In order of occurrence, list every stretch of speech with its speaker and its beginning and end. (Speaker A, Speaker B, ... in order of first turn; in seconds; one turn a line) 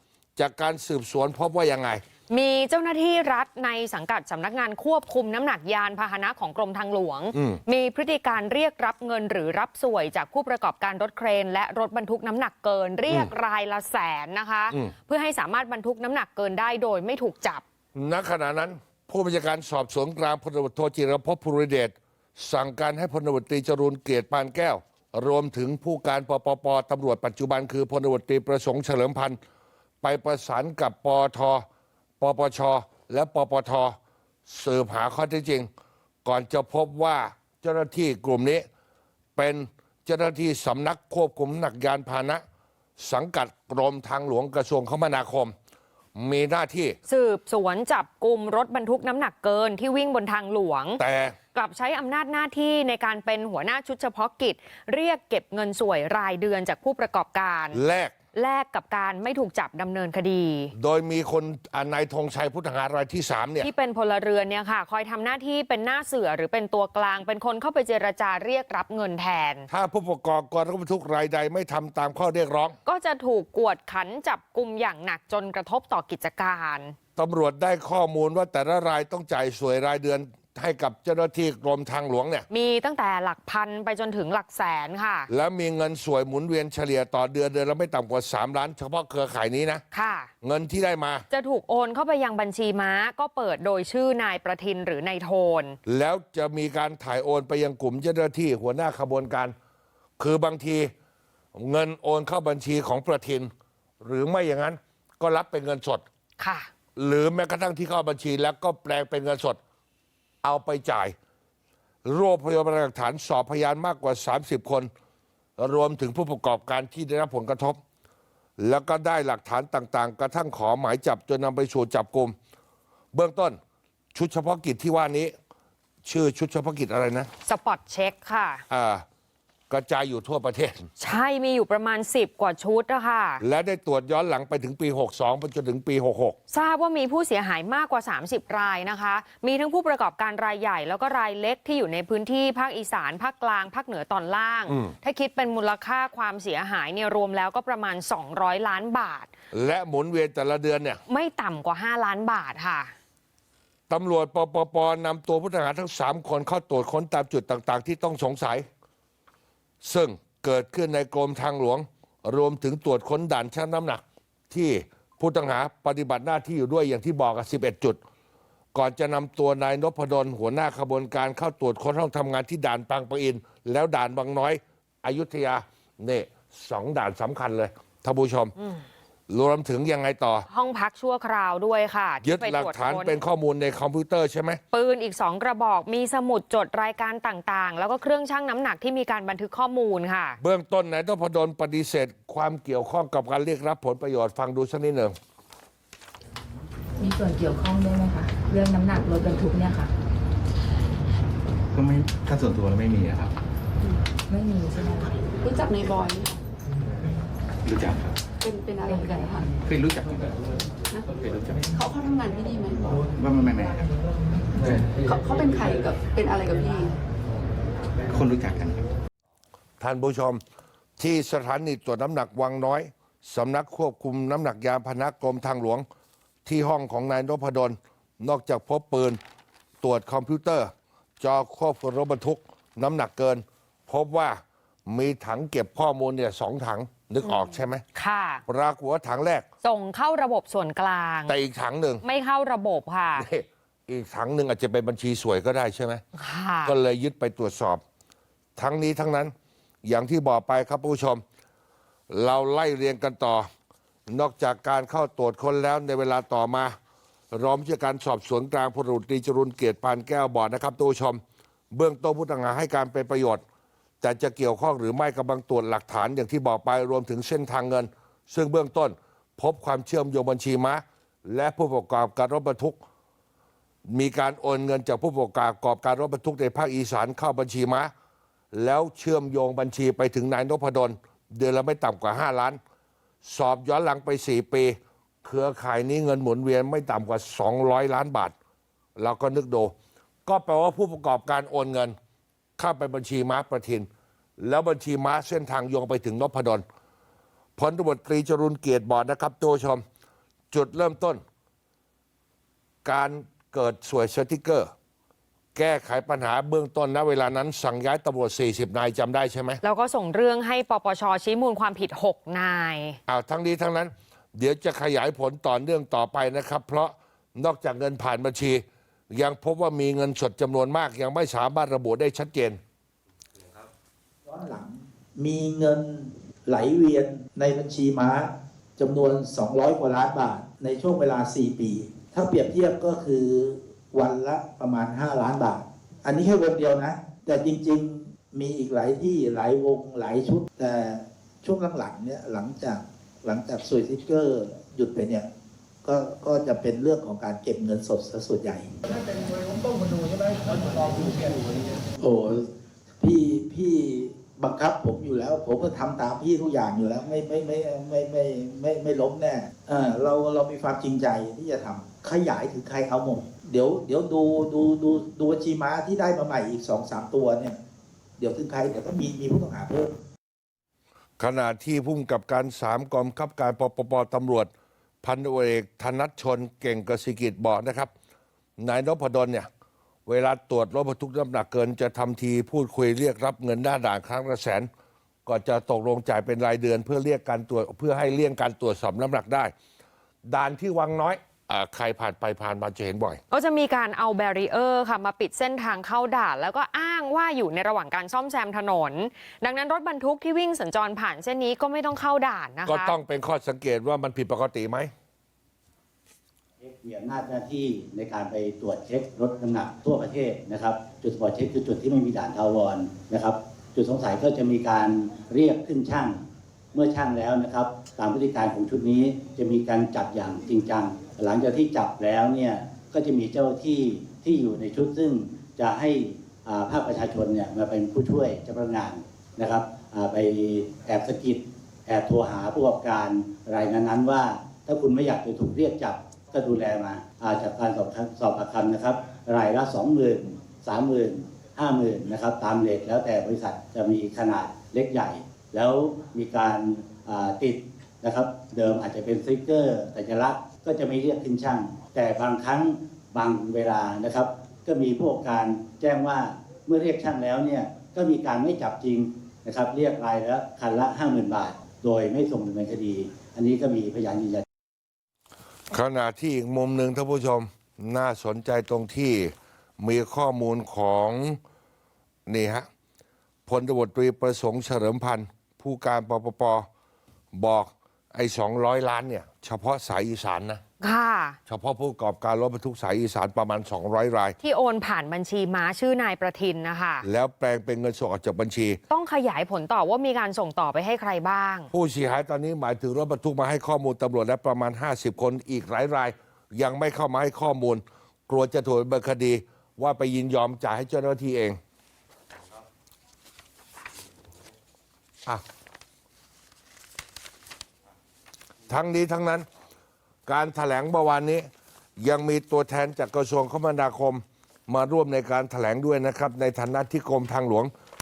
Speaker A: 0.4-2.0
Speaker B: 2.3-17.6
Speaker A: 7.3-7.6
Speaker A: 17.9-29.4
Speaker A: 30.0-31.6
Speaker A: 32.2-34.0
Speaker A: 34.5-35.7
Speaker A: 36.2-38.6
Speaker A: 39.4-42.4
Speaker A: 43.0-45.5
Speaker A: 46.1-47.0
Speaker B: 47.0-51.0
Speaker A: 51.0-51.4
Speaker B: 51.5-57.8
Speaker A: 57.7-58.1
Speaker B: 58.3-60.7
Speaker A: 60.7-63.7
Speaker B: 63.6-69.7
Speaker A: 69.7-72.8
Speaker B: 72.8-77.0
Speaker A: 77.2-82.5
Speaker B: 82.5-85.3
Speaker A: 85.3-89.8
Speaker B: 89.9-90.3
Speaker A: 90.4-91.2
Speaker B: 91.3-95.8
Speaker A: 95.8-99.5
Speaker A: 100.2-100.9
Speaker A: 101.5-106.0
Speaker B: 106.4-106.7
Speaker A: 107.0-109.6
Speaker A: 110.4-111.1
Speaker A: 112.0-114.9
Speaker A: 115.6-117.8
Speaker A: 118.6-122.3
Speaker A: 123.1-123.6
Speaker A: 124.1-125.3
Speaker A: 126.0-127.3
Speaker B: 127.4-128.6
Speaker A: 128.7-129.0
Speaker A: 129.7-130.9
Speaker B: 131.0-133.4
Speaker A: 133.4-136.4
Speaker B: 136.5-149.3
Speaker A: 144.7-144.9
Speaker A: 149.5-151.0
Speaker B: 151.1-152.9
Speaker A: 153.9-158.7
Speaker A: 159.8-168.0
Speaker A: 168.7-178.5
Speaker B: 178.6-178.8
Speaker A: 179.3-180.4
Speaker B: 180.5-183.2
Speaker A: 182.2-184.6
Speaker B: 184.7-190.4
Speaker A: 190.4-195.2
Speaker C: 197.0-199.9
Speaker D: 201.7-203.3
Speaker C: 204.3-205.1
Speaker E: 205.4-206.4
Speaker D: 207.6-208.2
Speaker E: 208.4-209.5
Speaker D: 209.6-211.7
Speaker E: 211.7-213.0
Speaker D: 213.1-213.9
Speaker D: 214.6-215.0
Speaker E: 215.0-216.9
Speaker D: 218.1-218.9
Speaker A: 219.8-220.4
Speaker A: 221.0-225.8
Speaker A: 226.4-229.2
Speaker A: 229.8-237.8
Speaker B: 237.2-238.4
Speaker A: 238.5-239.4
Speaker B: 239.6-241.3
Speaker A: 241.3-242.0
Speaker B: 242.0-243.3
Speaker A: 243.2-246.0
Speaker B: 246.1-246.7
Speaker A: 246.6-247.8
Speaker A: 248.6-249.3
Speaker A: 249.8-251.2
Speaker A: 252.1-253.5
Speaker A: 254.1-256.7
Speaker A: 257.3-263.4
Speaker A: 264.0-272.8
Speaker A: 273.9-277.9
Speaker A: 278.5-282.6
Speaker A: 283.2-288.3
Speaker A: 289.0-289.7
Speaker A: 290.2-291.9
Speaker A: 292.6-293.9
Speaker A: 294.4-296.6
Speaker A: 297.6-299.8
Speaker A: 300.5-301.2
Speaker A: 302.8-304.7
Speaker A: 305.5-309.6
Speaker B: 309.6-313.0
Speaker A: 313.1-322.6
Speaker F: 324.2-345.3
Speaker F: 345.8-349.2
Speaker F: 352.0-352.4
Speaker F: 353.0-367.6
Speaker F: 368.2-369.9
Speaker A: 371.2-374.5
Speaker A: 375.0-377.9
Speaker A: 378.6-379.5
Speaker A: 380.1-384.7
Speaker A: 385.2-389.5
Speaker A: 390.3-393.2
Speaker B: 393.3-402.9
Speaker A: 402.6-404.9
Speaker G: 406.6-416.2
Speaker G: 416.7-464.4
Speaker A: 465.7-471.4
Speaker A: 472.3-472.7
Speaker A: 473.5-476.7
Speaker A: 477.3-480.6
Speaker B: 480.8-481.4
Speaker A: 481.5-484.4
Speaker B: 484.4-487.1
Speaker A: 487.0-488.8
Speaker B: 488.9-491.7
Speaker A: 491.7-501.6
Speaker A: 508.7-509.4
Speaker A: 510.3-511.5
Speaker A: 512.0-517.7